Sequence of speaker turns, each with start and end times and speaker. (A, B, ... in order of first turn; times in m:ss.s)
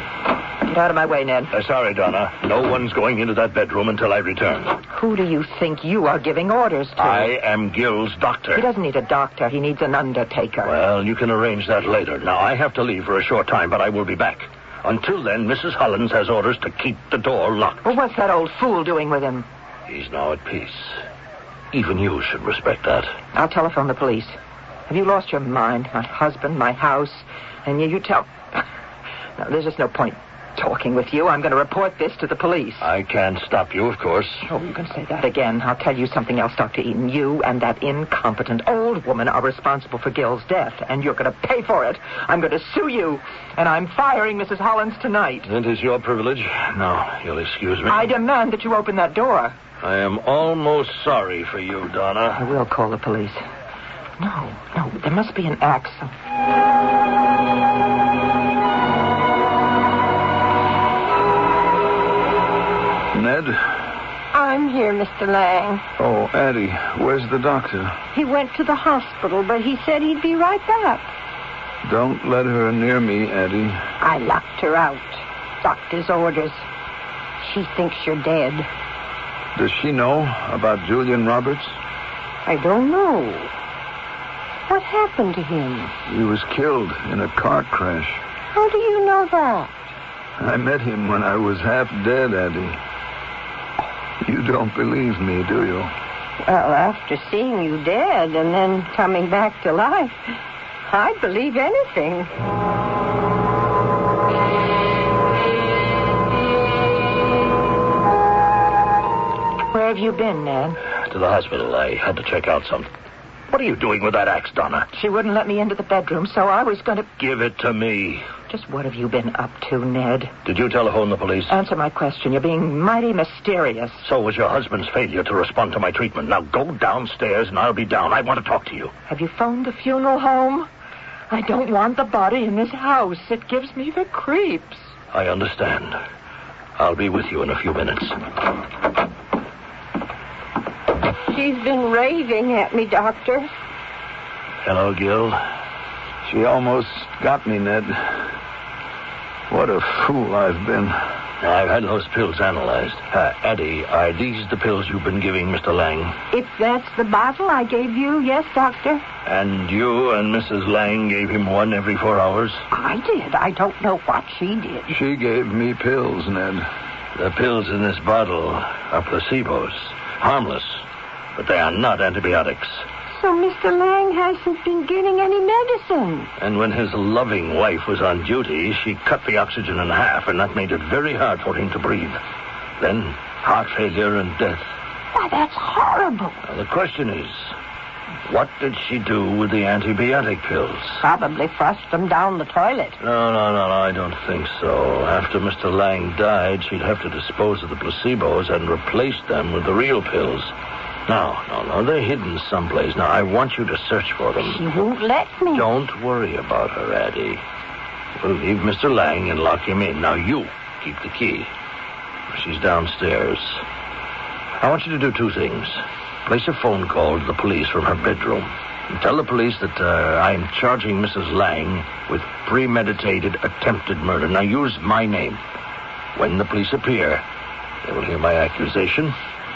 0:00.6-0:01.5 A
0:01.5-0:04.8 B
0:04.9-0:07.3 A
0:07.0-0:08.6 B
0:08.5-0:10.7 A
0:10.6-0:17.8 B
0:17.8-0:19.4 A
0:19.9-0:21.0 B
0:21.7-0:23.1 B
0:23.3-0:24.3 A
0:24.9-0:28.6 A
0:29.4-0:32.8 A
0:32.8-0:34.5 B
0:34.5-0:45.5 A
0:45.4-0:48.1 B
0:47.9-0:49.6 A
0:49.8-0:52.4 B
0:52.4-0:53.4 A
0:54.2-0:56.1 A
1:03.1-1:03.8 C
1:04.3-1:05.8 D
1:06.0-1:08.0 C
1:08.1-1:11.1 D
1:11.8-1:13.8 C
1:14.0-1:16.6 D
1:17.4-1:18.7 D
1:19.5-1:21.8 C
1:22.4-1:23.5 D
1:24.7-1:25.9 D
1:26.1-1:28.2 C
1:28.5-1:29.7 D
1:30.4-1:32.8 C
1:34.2-1:35.9 C
1:36.4-1:40.2 D
1:40.8-1:42.3 D
1:49.7-1:50.8 A
1:51.0-1:52.9 B
1:53.5-1:54.9 B
1:54.9-1:57.1 A
1:57.2-1:58.2 B
1:58.5-2:00.3 A
2:00.4-2:01.5 B
2:01.5-2:04.0 A
2:04.0-2:08.9 B
2:09.1-2:10.7 A
2:11.3-2:14.9 A
2:15.1-2:16.0 B
2:16.8-2:18.2 B
2:21.3-2:23.5 D
2:24.6-2:25.4 B
2:26.2-2:28.3 C
2:29.5-2:31.0 C
2:31.4-2:36.2 B
2:36.3-2:39.0 D
2:39.2-2:42.6 B
2:42.7-2:44.9 D
2:44.9-2:46.6 C
2:47.1-2:52.8 B
2:53.1-2:56.3 D
2:56.4-3:02.2 B
3:02.8-3:04.7 B
3:05.1-3:06.4 D
3:06.4-3:07.5 B
3:08.2-3:11.0 B
3:11.0-3:13.0 D
3:13.0-3:20.5 B
3:21.1-3:24.6 B
3:24.4-3:25.7 D
3:25.5-3:27.4 B
3:28.2-3:31.5 B
3:32.3-3:33.6 B
3:34.6-3:45.4 B
3:46.1-3:47.2 B
3:47.8-3:49.1 B